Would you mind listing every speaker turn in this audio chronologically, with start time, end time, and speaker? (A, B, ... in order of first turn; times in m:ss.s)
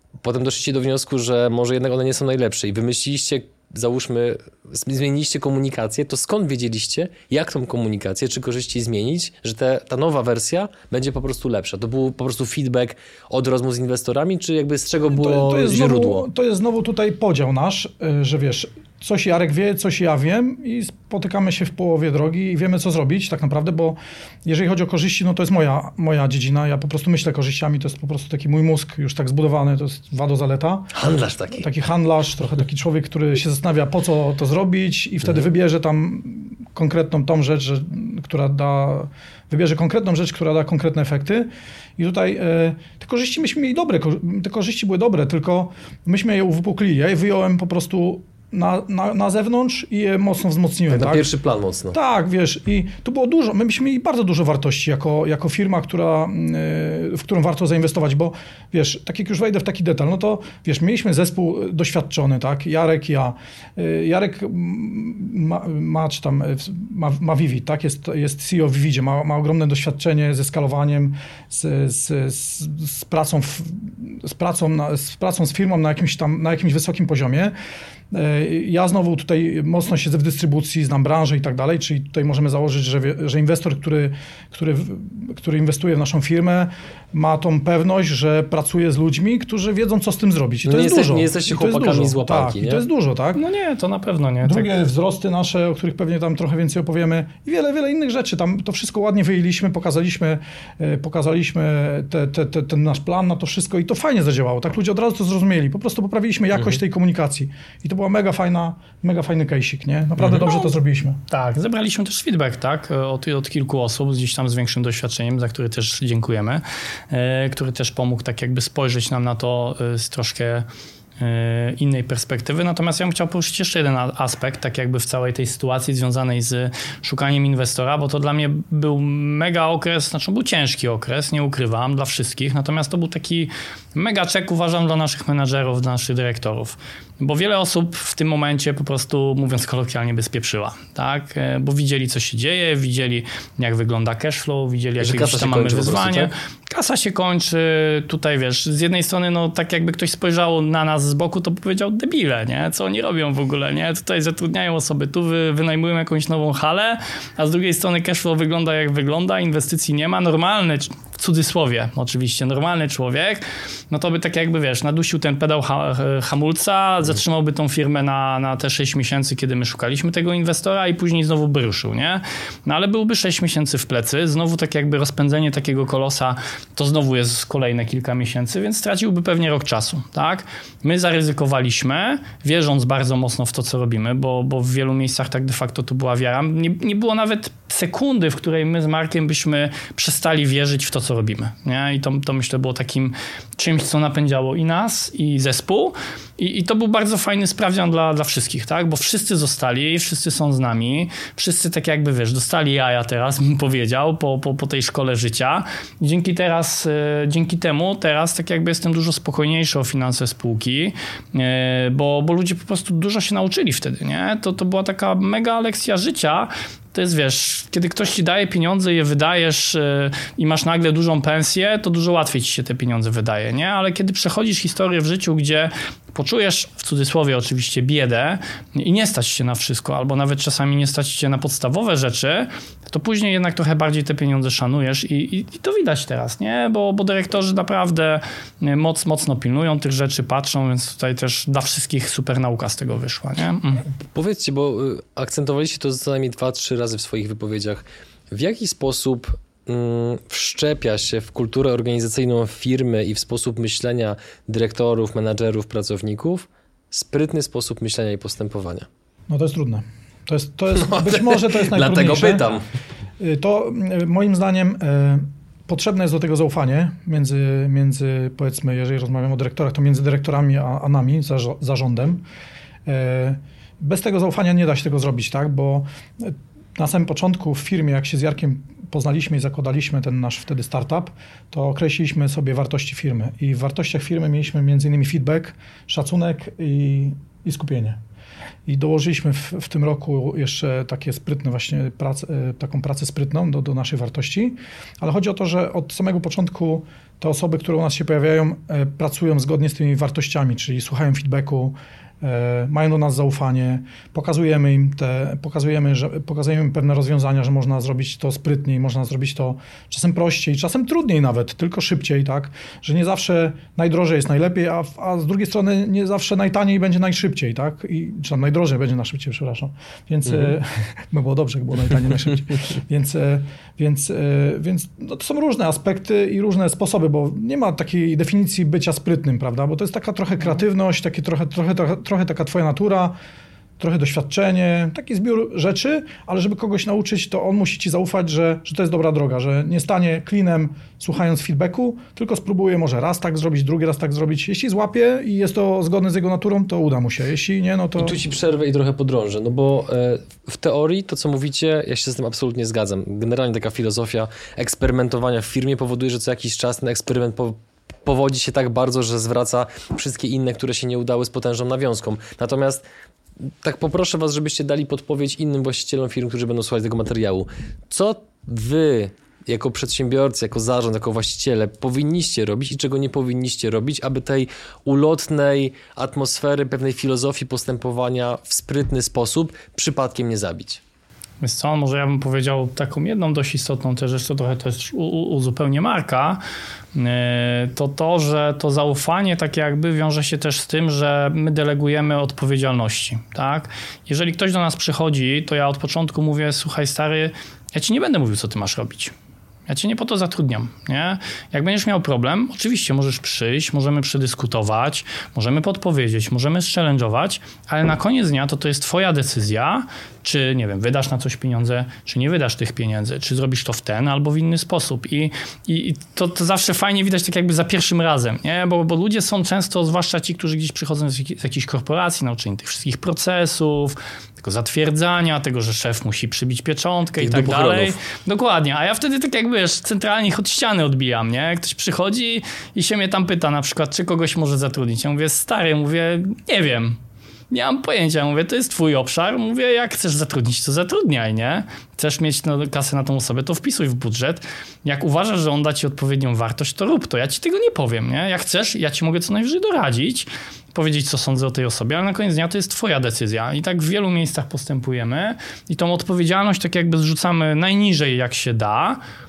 0:00.2-0:16.2 A
0:15.1-0:30.9 B
0:30.9-0:31.6 A
0:31.6-0:51.3 B
0:50.9-0:52.0 A
0:51.9-1:17.5 B
1:18.1-1:33.4 B
1:30.6-1:32.8 A
1:33.3-1:34.7 C
1:34.4-1:51.2 B
1:46.5-1:46.8 A
1:50.2-1:50.5 A
1:50.4-1:50.7 C
1:51.3-2:00.6 C
2:01.2-4:03.8 C
2:25.0-2:26.3 A
4:04.1-4:18.9 A
4:19.3-4:22.4 B
4:20.7-4:22.6 A
4:23.2-4:32.2 B
4:32.8-4:48.0 B
4:48.6-5:33.1 B
5:33.8-5:48.2 B
5:48.0-6:02.8 A
6:03.4-6:20.8 A
6:21.4-6:26.4 C
6:26.9-6:39.1 C
6:39.7-7:17.0 C
7:07.2-7:08.0 A
7:17.5-7:39.0 C